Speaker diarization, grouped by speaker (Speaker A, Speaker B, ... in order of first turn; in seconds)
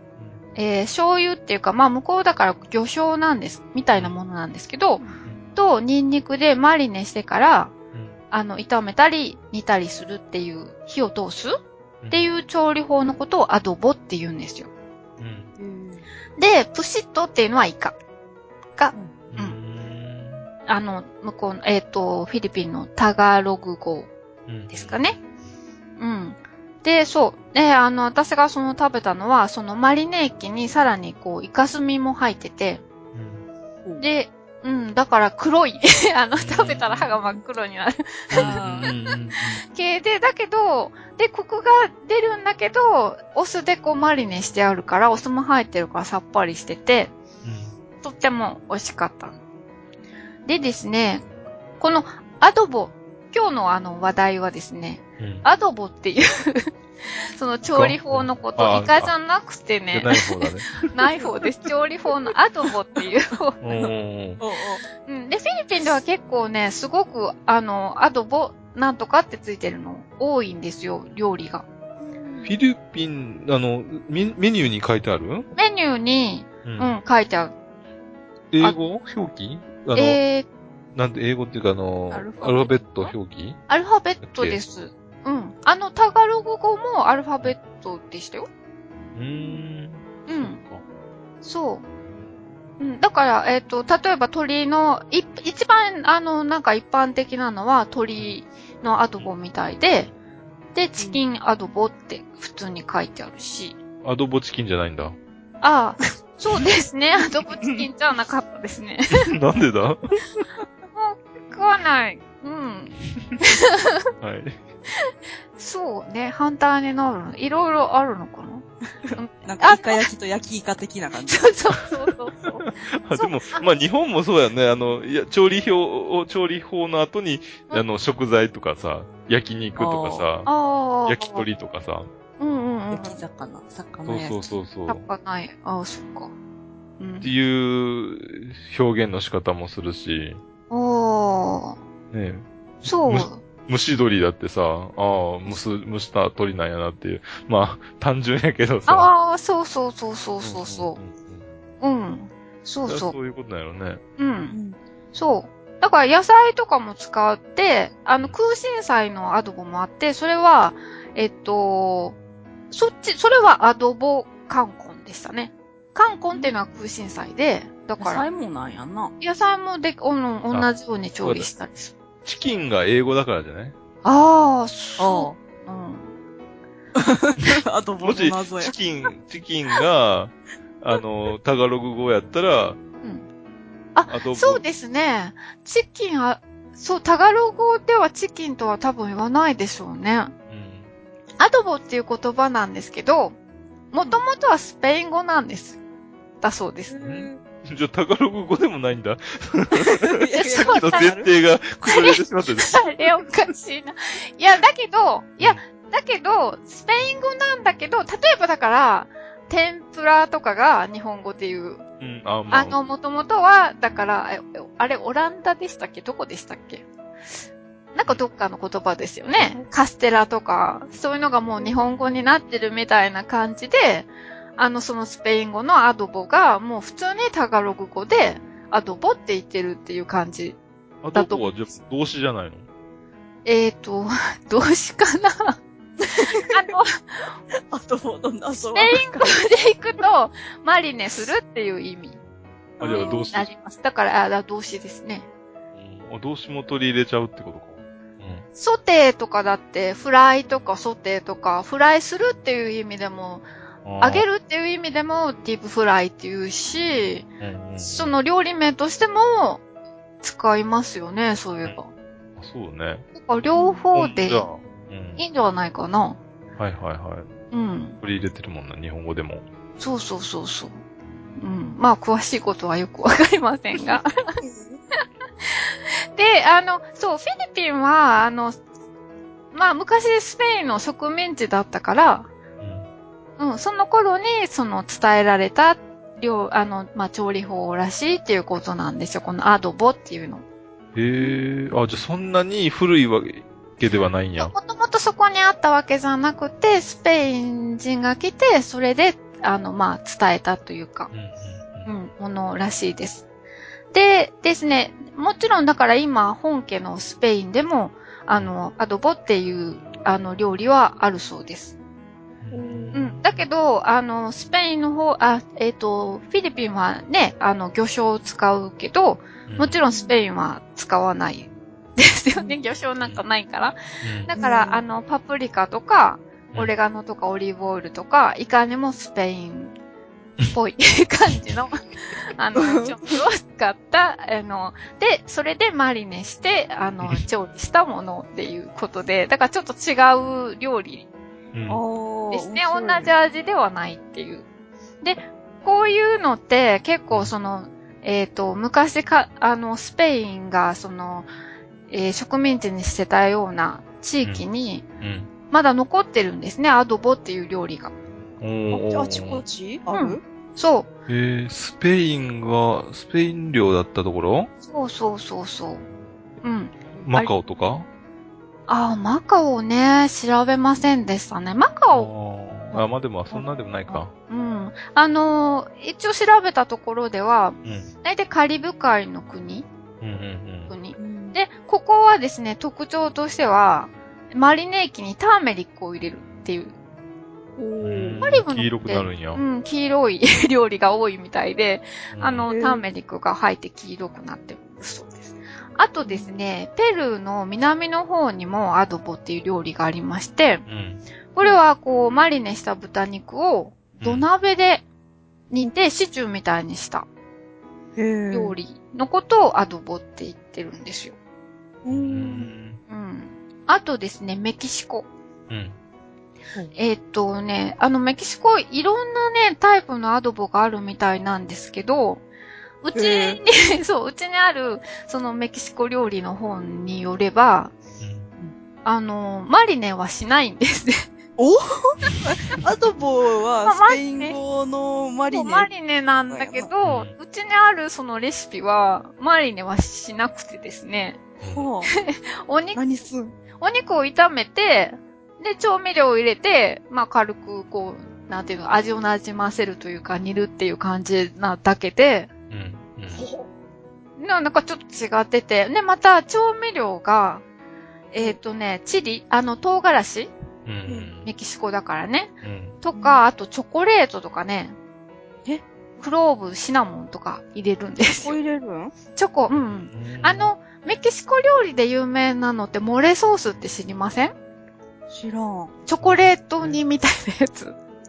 Speaker A: 0.6-5.0, 5.5-7.7, 8.3-11.6, 12.1-14.7, 16.4-17.9, 18.8-19.6, 20.7-24.1, 24.7-25.2, 26.0-32.8, 34.0-39.0, 39.7-47.1, 48.0-49.4, 50.5-51.3, 51.8-56.8, 57.4-60.2, 60.8-63.6, 65.0-71.7, 75.6-77.5, 79.9-80.5, 82.1-82.7, 83.7-88.5, 90.3-90.6, 91.4-91.8, 92.8-100.1, 100.8-103.8, 105.6-109.3, 110.9-114.0, 115.0-120.1, 121.3-123.6, 130.5-131.5, 132.4-133.2, 134.9-136.3, 137.0-137.3, 140.7-141.8, 142.8-143.4, 148.9-151.0, 151.8-153.2, 154.2-154.6, 155.1-162.2, 162.7-168.2, 169.2-171.9, 174.0-176.1, 183.9-190.3, 191.4-193.4, 193.9-195.8, 196.4-197.0, 200.3-201.2, 201.8-211.8, 212.5-216.8, 218.0-230.6, 231.1-231.5, 233.4-237.3, 238.8-242.2, 242.9-245.3, 248.6-253.5, 254.0-257.3, 257.8-259.6, 260.2-261.9, 263.1-264.5, 265.2-266.2, 267.5-268.0, 269.8-270.8, 271.4-274.4, 275.5-278.6, 279.5-282.3, 283.4-290.4, 294.4-301.1, 301.9-303.3, 303.9-311.8, 313.0-329.7, 330.5-331.8, 332.4-341.1, 342.3-344.4, 345.0-351.3, 351.9-354.9, 355.5-357.9, 359.9-360.9, 364.6-365.9, 366.4-367.3, 368.7-372.1, 373.9-379.7, 380.7-386.8, 388.2-400.6, 401.3-404.9, 405.5-407.1, 408.3-411.1, 412.9-415.1, 416.8-422.2, 422.8-427.7, 428.9-431.1, 433.6-434.4, 435.3-441.2, 442.0-442.8, 443.6-452.3, 454.2-457.4, 458.1-460.3, 461.2-464.8, 466.0-468.4, 469.1-474.3, 475.9-477.8
Speaker B: 12.0-12.3, 15.2-15.5, 19.3-20.5, 24.5-25.0, 33.1-33.5, 36.4-37.2, 38.3-39.6, 47.4-47.7, 55.2-55.5, 57.7-59.2, 59.9-60.8, 63.6-64.4, 72.5-75.5, 76.6-77.0, 78.5-80.2, 81.0-83.6, 84.2-84.6, 89.2-90.8, 104.0-105.2, 109.1-110.4, 114.2-114.6, 122.9-130.5, 131.1-132.1, 134.1-135.0, 137.2-140.4, 142.1-149.1, 150.4-151.5, 152.9-154.0, 171.2-171.5, 172.2-173.8, 178.0-182.8, 184.1-184.6, 190.5-190.9, 197.0-202.8, 212.0-212.8, 231.0-232.7, 242.8-243.5, 245.8-248.5, 253.8-254.2, 257.4-258.2, 262.4-263.1, 263.9-265.2, 266.6-267.3, 268.0-269.4, 282.6-282.9, 290.9-294.5, 301.1-301.9, 312.4-313.4, 319.5-319.8, 324.0-324.3, 341.5-341.8, 355.0-355.3, 358.4-359.4, 361.1-364.5, 367.0-367.9, 371.9-374.1, 377.6-377.9, 380.0-380.7, 387.8-389.4, 392.1-392.5, 400.7-401.0, 404.0-404.3, 411.9-412.8, 415.5-415.8, 428.0-428.3, 436.8-437.1, 441.4-441.7, 452.5-453.2, 460.7-461.3, 462.4-462.8, 469.5-470.5, 476.0-476.8
Speaker C: 15.6-16.1, 38.4-38.9, 63.7-64.8, 72.0-72.5, 119.1-121.5, 129.8-130.3, 132.9-134.5, 154.5-154.8, 168.0-169.1, 175.0-175.4, 177.0-178.8, 196.9-197.4, 200.0-201.3, 219.4-219.7, 236.0-236.7, 237.6-239.5, 242.8-243.3, 263.6-263.8, 273.8-274.8, 312.5-313.0, 324.4-324.8, 332.6-333.0, 341.7-343.1, 358.7-360.2, 381.0-381.4, 387.6-388.3, 392.5-392.9, 396.1-396.3, 408.0-408.6, 411.9-412.5, 422.9-423.4, 431.4-435.7, 436.3-436.7, 441.5-441.9, 442.7-443.3, 453.1-453.5, 462.9-463.2, 468.2-468.9, 475.1-475.8